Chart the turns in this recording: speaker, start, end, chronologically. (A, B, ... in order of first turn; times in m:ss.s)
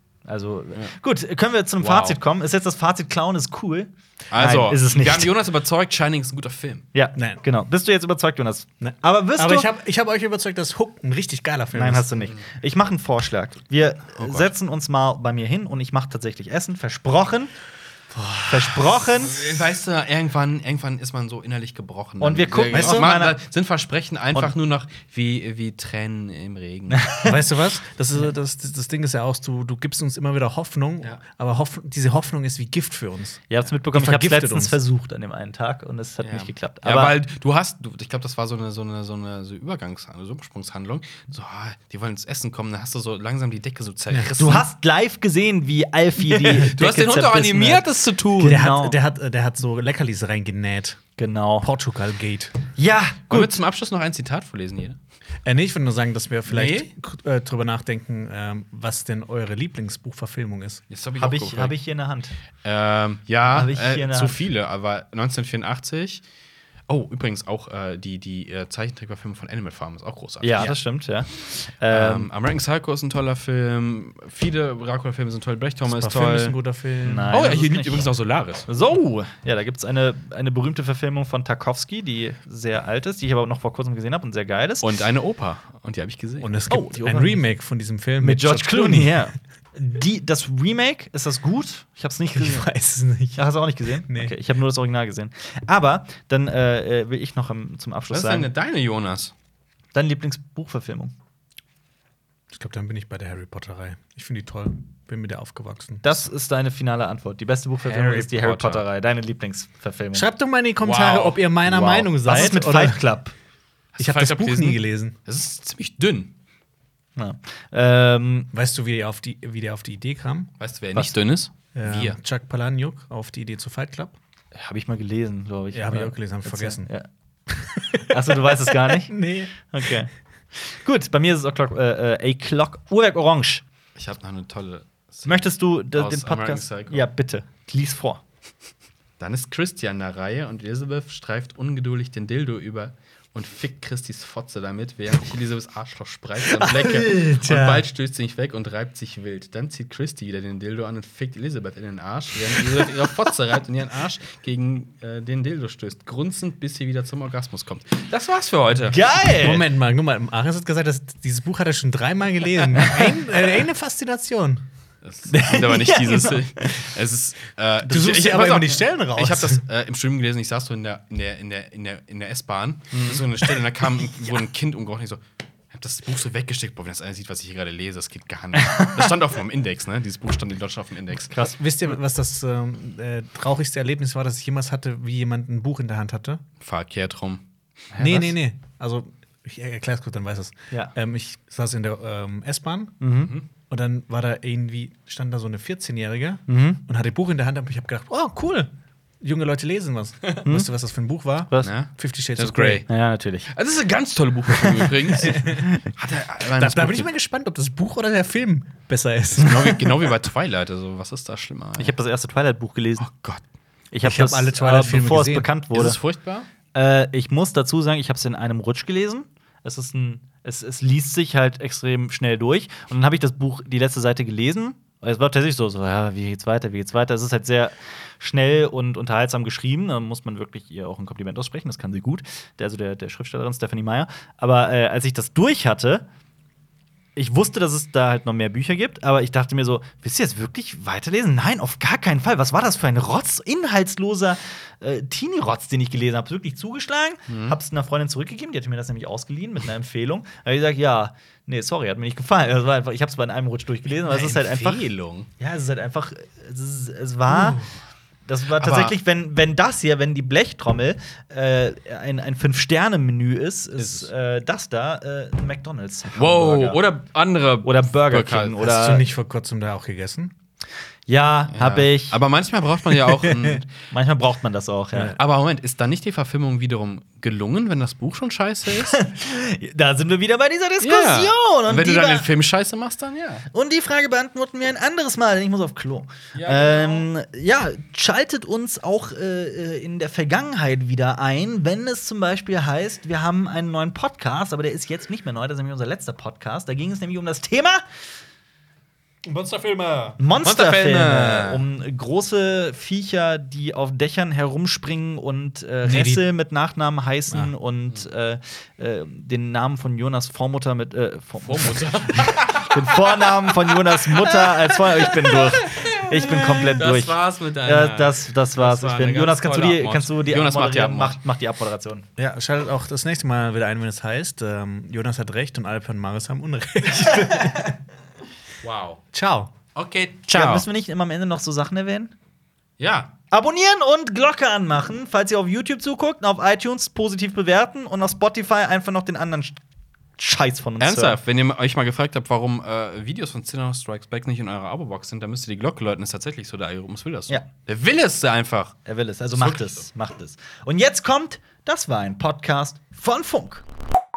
0:00.2-0:05.3 A
0:01.8-0:02.2 B
0:04.3-0:06.8 B
0:06.9-0:09.7 A
0:07.2-0:07.4 C
0:08.8-0:12.2 C
0:11.7-0:17.5 A
0:14.2-0:14.5 B
0:18.1-0:18.7 C
0:18.5-0:19.4 A
0:19.2-0:27.1 B
0:22.2-0:23.4 A
0:22.7-0:23.1 C
0:26.9-0:27.4 A
0:27.2-0:33.4 C
0:33.5-0:37.1 A
0:33.9-0:34.8 C
0:36.2-0:44.6 B
0:44.4-0:49.0 A
0:46.4-0:48.6 B
0:48.4-0:51.0 C
0:51.2-0:51.7 A
0:51.6-0:52.6 C
0:52.7-0:53.6 A
0:53.3-0:55.0 B
0:55.4-1:00.8 C
0:56.5-0:56.9 B
1:00.9-1:01.8 B
1:01.2-1:02.4 A
1:02.6-1:06.2 B
1:03.5-1:04.4 A
1:06.9-1:10.7 B
1:10.4-1:12.3 A
1:11.9-1:16.6 B
1:15.8-1:17.5 C
1:17.0-1:18.1 A
1:17.3-1:18.7 B
1:18.7-1:24.9 A
1:24.8-1:26.5 B
1:26.4-1:29.3 C
1:26.7-1:27.4 A
1:28.2-1:32.7 A
1:32.3-1:33.5 C
1:33.4-1:38.5 A
1:34.0-1:34.3 C
1:38.1-1:39.3 B
1:39.9-1:41.1 A
1:42.5-1:46.2 C
1:46.0-1:50.2 A
1:47.8-1:48.6 C
1:48.4-1:48.8 B
1:50.1-1:53.0 C
1:50.8-1:51.4 B
1:51.6-1:53.3 A
1:54.0-1:56.3 B
1:54.0-1:55.2 C
1:57.2-1:58.5 A
1:58.5-2:00.5 C
2:00.6-2:02.2 B
2:01.7-2:04.2 C
2:04.5-2:07.1 A
2:05.7-2:06.9 C
2:07.5-2:09.9 C
2:08.1-2:13.6 A
2:14.0-2:17.1 B
2:15.2-2:18.2 A
2:19.2-2:39.3 B
2:26.4-2:27.8 C
2:38.9-2:39.7 A
2:39.4-2:44.6 C
2:42.7-2:43.2 A
2:45.0-3:01.4 B
2:45.3-2:46.9 A
2:47.8-2:49.6 C
2:52.9-2:53.2 A
2:58.6-2:59.0 A
3:01.4-3:06.4 C
3:06.6-3:07.4 B
3:07.9-3:08.3 A
3:08.0-3:13.0 C
3:13.0-3:13.3 A
3:13.7-3:22.8 C
3:16.5-3:16.8 A
3:20.4-3:20.7 A
3:21.6-3:22.9 B
3:22.8-3:23.5 A
3:23.5-3:27.1 B
3:24.6-3:25.1 A
3:25.3-3:25.6 C
3:26.5-3:29.9 C
3:29.4-3:31.9 B
3:29.4-3:29.7 A
3:31.8-3:33.0 A
3:33.0-3:33.4 B
3:33.9-3:36.0 A
3:34.0-3:35.5 C
3:35.7-3:36.5 B
3:36.7-3:56.0 A
3:57.2-4:14.8 A
4:07.3-4:07.6 B
4:14.0-4:15.3 B
4:15.4-4:17.6 A
4:17.3-4:17.7 B
4:18.3-4:26.8 A
4:18.6-4:18.9 B
4:23.8-4:24.1 B
4:26.1-4:28.6 B
4:27.6-4:29.0 A
4:28.6-4:30.3 C
4:31.1-4:32.2 A
4:31.5-4:33.7 B
4:33.0-4:35.2 A
4:35.2-4:39.0 B
4:38.8-4:42.3 A
4:40.8-4:43.4 B
4:43.5-4:57.8 A
4:46.3-4:47.1 B
4:59.2-5:00.2 C
5:00.2-5:22.1 A
5:00.4-5:01.6 B
5:05.8-5:06.2 C
5:11.4-5:21.2 B
5:22.2-5:27.8 C
5:28.6-5:29.0 B
5:29.1-5:29.5 C
5:29.7-5:30.7 B
5:30.3-5:32.1 A
5:32.8-5:33.1 B
5:33.3-5:39.6 A
5:40.2-5:41.2 A
5:40.8-5:49.9 B
5:48.8-5:53.6 A